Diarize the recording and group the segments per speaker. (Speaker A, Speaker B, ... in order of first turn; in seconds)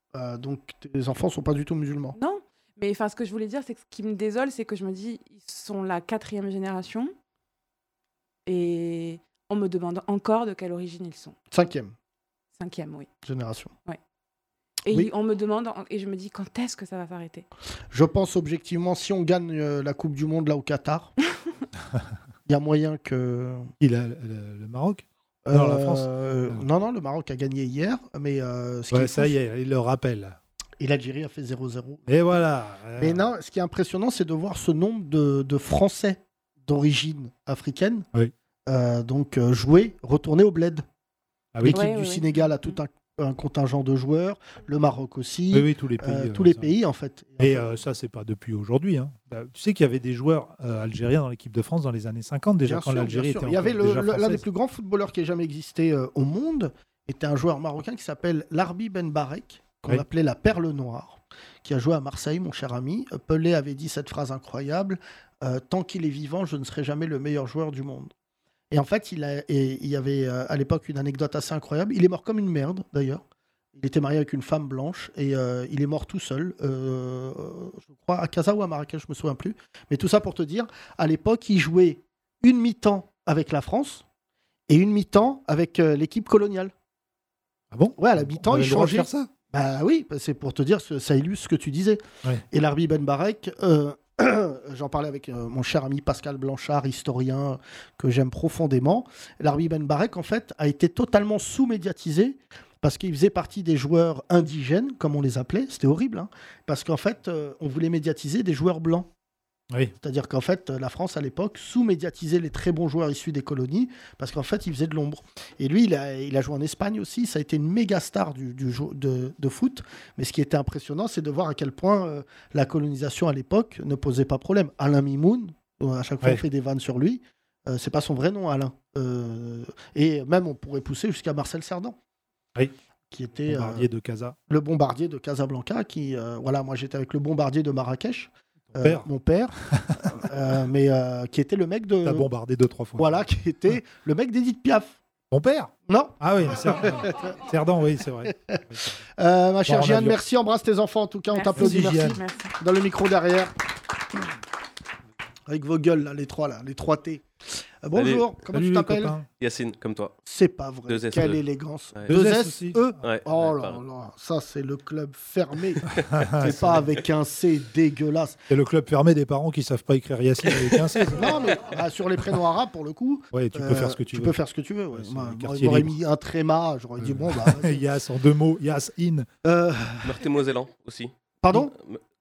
Speaker A: 0.1-2.1, 11.5-11.9, 13.2-13.7, 17.9-21.1, 22.5-23.7, 25.4-29.3, 30.8-32.1, 33.0-38.0, 38.7-40.8, 41.6-47.7, 52.6-68.1, 68.7-73.2, 73.8-84.0, 84.7-86.7, 88.0-109.1, 110.0-131.9, 133.1-133.9, 134.5-142.3, 143.0-145.0, 145.9-147.3, 148.3-148.6, 149.2-153.5, 155.5-157.2, 157.8-159.1, 160.2-168.4, 171.1-177.8, 179.4-180.2, 181.4-181.7
Speaker B: 2.1-7.1, 8.4-11.3, 12.6-13.1, 14.8-17.4, 41.7-42.8, 151.3-152.5
Speaker C: 23.8-26.6, 28.9-30.4, 32.1-33.3, 41.5-41.8, 45.5-46.7, 47.4-54.4, 87.7-89.3, 133.4-134.3, 138.7-139.1, 139.7-140.0, 142.0-143.3, 145.3-149.0, 149.7-150.2, 151.5-152.2, 158.5-159.3, 162.1-162.9, 166.0-166.9, 168.5-171.5, 173.3-174.4, 174.9-175.9, 177.0-179.3
Speaker D: 157.9-158.3, 159.4-160.1, 160.9-161.4, 163.0-163.8, 180.0-182.0